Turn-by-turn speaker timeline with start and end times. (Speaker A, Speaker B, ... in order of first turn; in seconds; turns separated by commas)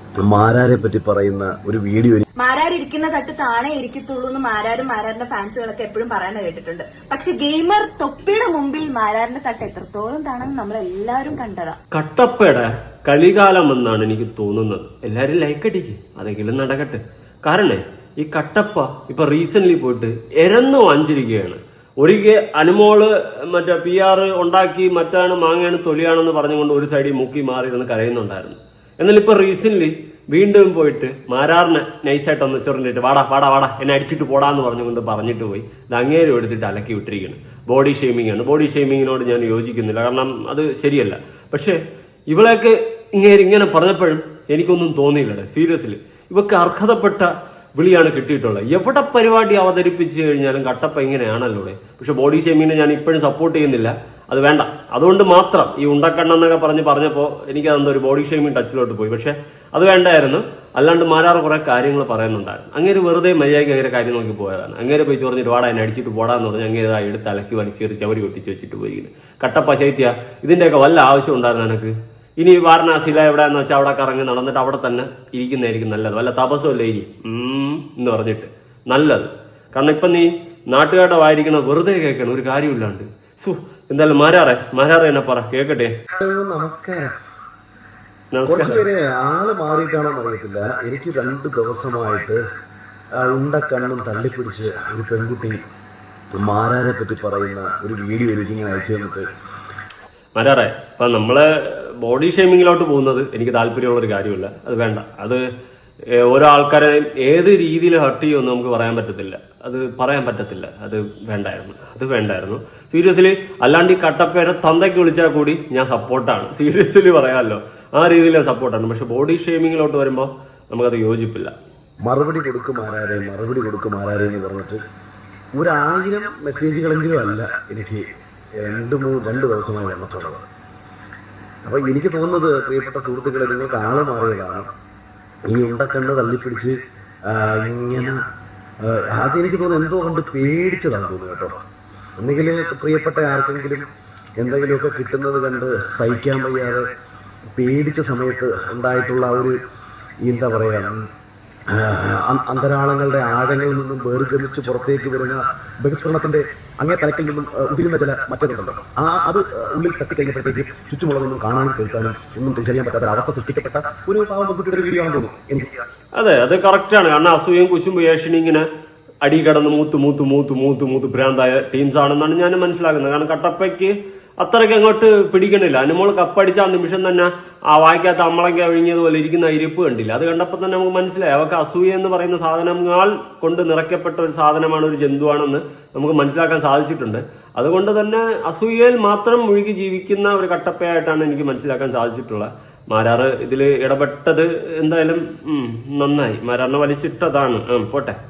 Speaker A: 0.2-2.2, Speaker B: 2.4-11.8, Speaker C: 11.9-41.8, Speaker C: 42.3-85.9, Speaker A: 86.2-87.2, Speaker C: 88.3-88.9, Speaker A: 88.5-92.4, Speaker A: 93.2-95.6, Speaker A: 96.4-99.3, Speaker C: 100.4-105.5, Speaker C: 106.1-121.5, Speaker A: 122.0-124.8, Speaker A: 125.5-128.0, Speaker A: 128.6-130.4, Speaker A: 131.7-134.7, Speaker A: 135.5-136.8, Speaker A: 137.3-138.2, Speaker A: 138.8-141.6, Speaker A: 142.2-143.8, Speaker A: 144.4-146.9, Speaker A: 147.6-149.6, Speaker A: 150.2-151.1, Speaker A: 151.7-165.8, Speaker C: 166.2-168.7, Speaker C: 169.2-198.2